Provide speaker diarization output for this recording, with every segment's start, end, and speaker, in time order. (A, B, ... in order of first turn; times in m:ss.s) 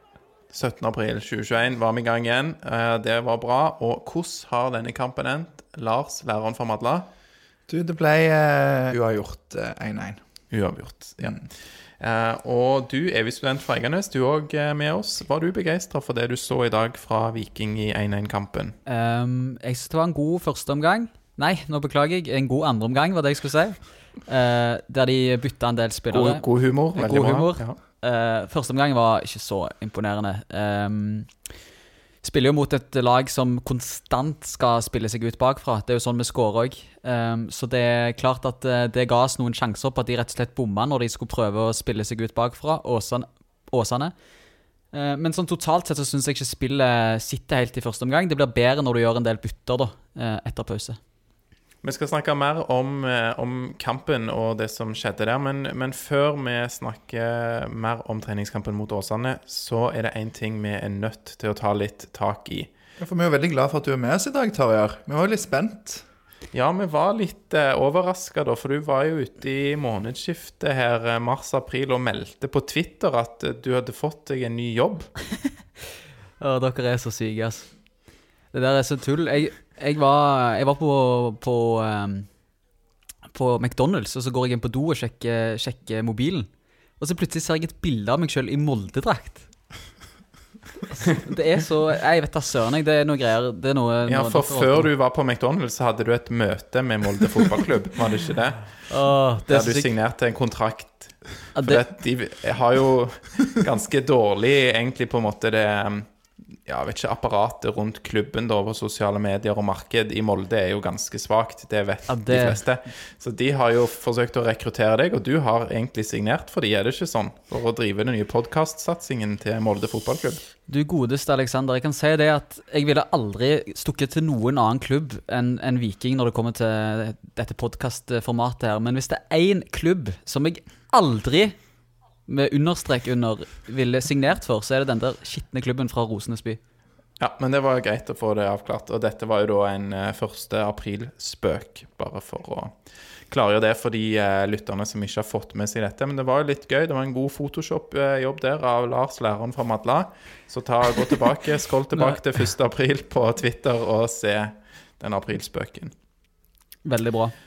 0:00.5-0:07.1 A
0:07.7-0:10.2 B
0:10.5-0:11.5 A
0:12.0-0:18.8 A
0:18.9-0:26.4 C
0:26.1-0:27.8 A
0:27.0-0:31.3 C
0:32.2-0:44.1 C
0:44.9-0:51.0 C
0:51.8-1:02.7 A
1:03.0-1:06.0 B
1:06.5-1:15.1 A
1:16.4-1:17.7 C
1:18.5-1:22.3 C
1:23.3-1:29.5 C
1:30.9-1:34.9 C
1:34.1-1:38.8 A
1:38.9-1:39.9 C
1:39.5-1:46.1 A
1:41.6-1:41.8 C
1:46.7-2:00.4 A
1:52.1-1:52.6 C
2:00.7-2:11.6 C
2:12.3-2:16.6 C
2:17.2-2:22.8 A
2:23.3-2:35.9 A
2:36.8-2:37.3 C